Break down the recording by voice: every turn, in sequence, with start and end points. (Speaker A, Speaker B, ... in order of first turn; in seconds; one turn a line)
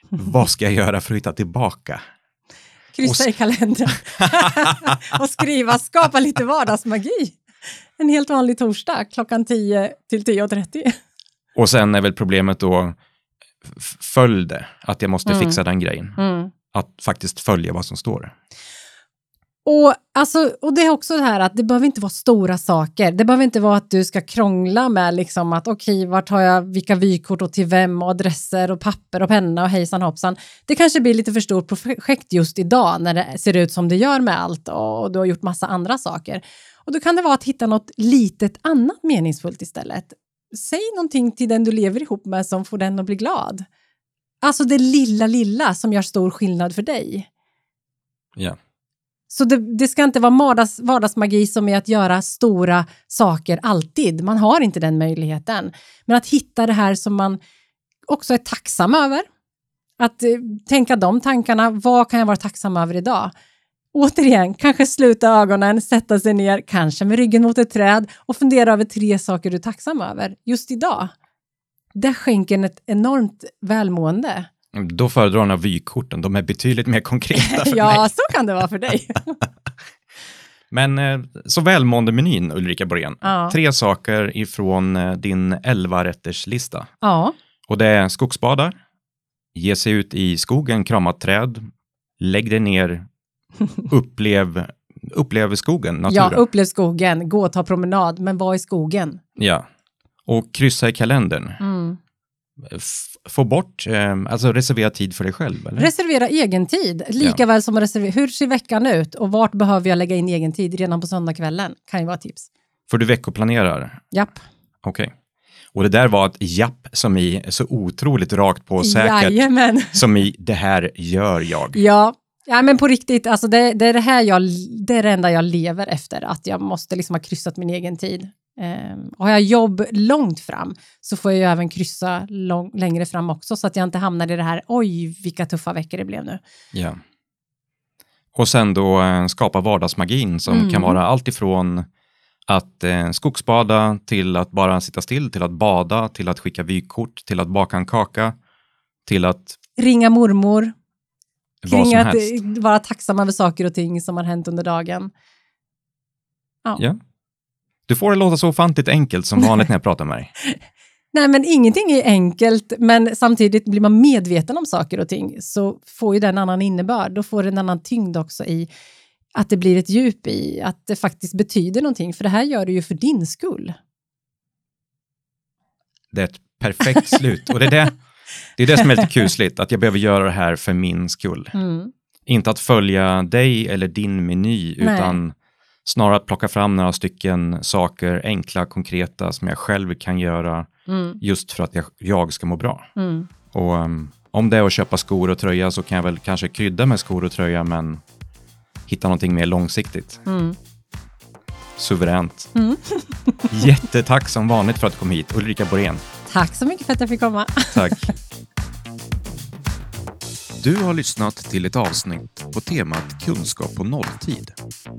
Speaker A: 0.1-2.0
Speaker B: 2.9-7.4
Speaker B: 8.0-10.9
Speaker A: 11.6-12.9
Speaker A: 13.6-16.2
Speaker B: 15.2-15.6
Speaker B: 16.2-16.5
Speaker A: 16.7-18.3
Speaker B: 19.6-43.6
Speaker B: 44.4-47.3
Speaker B: 49.3-57.4
Speaker B: 58.1-59.2
Speaker B: 60.0-63.3
Speaker B: 63.9-71.1
Speaker B: 71.9-74.5
Speaker A: 74.7-78.1
Speaker B: 77.3-79.4
Speaker A: 80.7-86.9
Speaker B: 83.2-83.5
Speaker B: 87.0-87.3
Speaker A: 87.7-88.7
Speaker A: 89.5-91.6
Speaker A: 92.2-93.0
Speaker A: 93.9-96.4
Speaker B: 96.1-99.2
Speaker A: 99.4-99.6
Speaker A: 100.2-101.6
Speaker B: 101.6-102.0
Speaker A: 102.6-105.9
Speaker B: 105.8-112.5
Speaker A: 112.9-114.0
Speaker B: 114.1-114.4
Speaker A: 114.8-115.1
Speaker A: 115.7-119.4
Speaker B: 118.8-120.0
Speaker A: 119.9-121.8
Speaker B: 121.7-136.4
Speaker A: 136.7-137.0
Speaker A: 138.3-141.8
Speaker B: 140.5-141.0
Speaker A: 142.5-148.3
Speaker A: 149.1-149.6
Speaker B: 149.8-150.7
Speaker A: 151.6-152.4
Speaker B: 151.7-155.1
Speaker A: 157.9-160.3
Speaker B: 161.1-168.7
Speaker B: 169.3-173.7
Speaker A: 176.1-177.9
Speaker A: 178.6-181.5
Speaker B: 181.5-181.9
Speaker A: 182.3-190.7
Speaker B: 184.8-185.2
Speaker B: 190.9-191.2
Speaker A: 191.2-192.9
Speaker B: 192.9-193.3
Speaker A: 193.5-198.0
Speaker A: 198.9-200.2
Speaker B: 200.2-200.6
Speaker A: 201.8-202.5
Speaker B: 202.5-203.6
Speaker A: 203.5-206.0
Speaker B: 206.3-208.1
Speaker A: 207.7-208.1
Speaker A: 210.6-214.6